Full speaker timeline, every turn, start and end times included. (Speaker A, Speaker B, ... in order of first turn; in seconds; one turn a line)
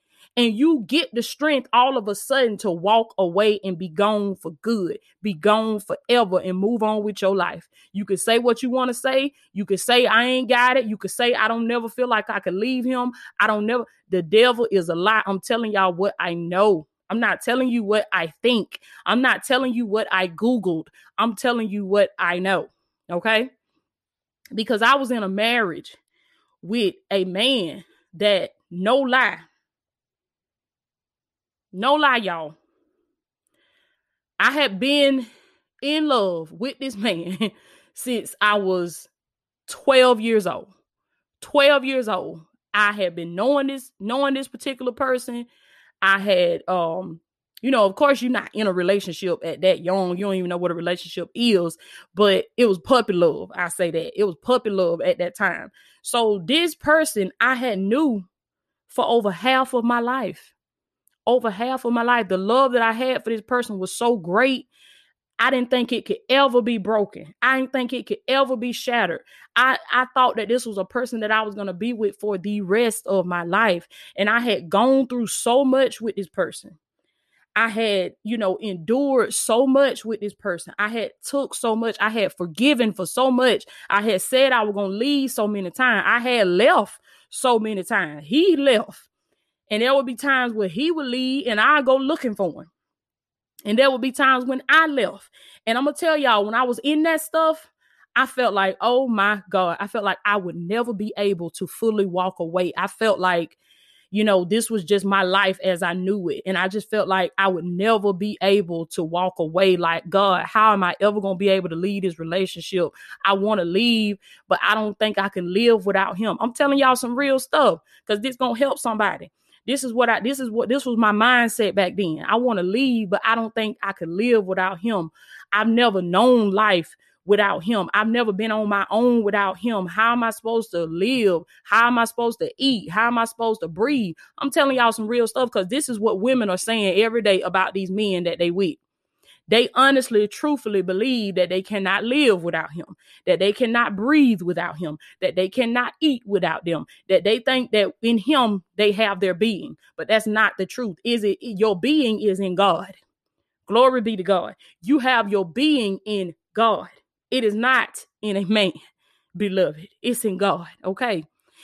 Speaker A: 0.4-23.5
Speaker A: 24.5-26.0
Speaker A: 26.6-29.5
Speaker A: 31.7-32.6
Speaker A: 34.4-35.3
Speaker A: 35.8-39.1
Speaker A: 39.7-40.7
Speaker A: 41.4-45.5
Speaker A: 46.0-58.3
Speaker A: 58.9-60.5
Speaker A: 61.3-64.7
Speaker A: 65.4-76.8
Speaker A: 77.6-89.1
Speaker A: 89.7-92.7
Speaker A: 93.7-103.6
Speaker A: 104.1-138.8
Speaker A: 139.5-153.0
Speaker A: 153.7-158.8
Speaker A: 159.3-161.3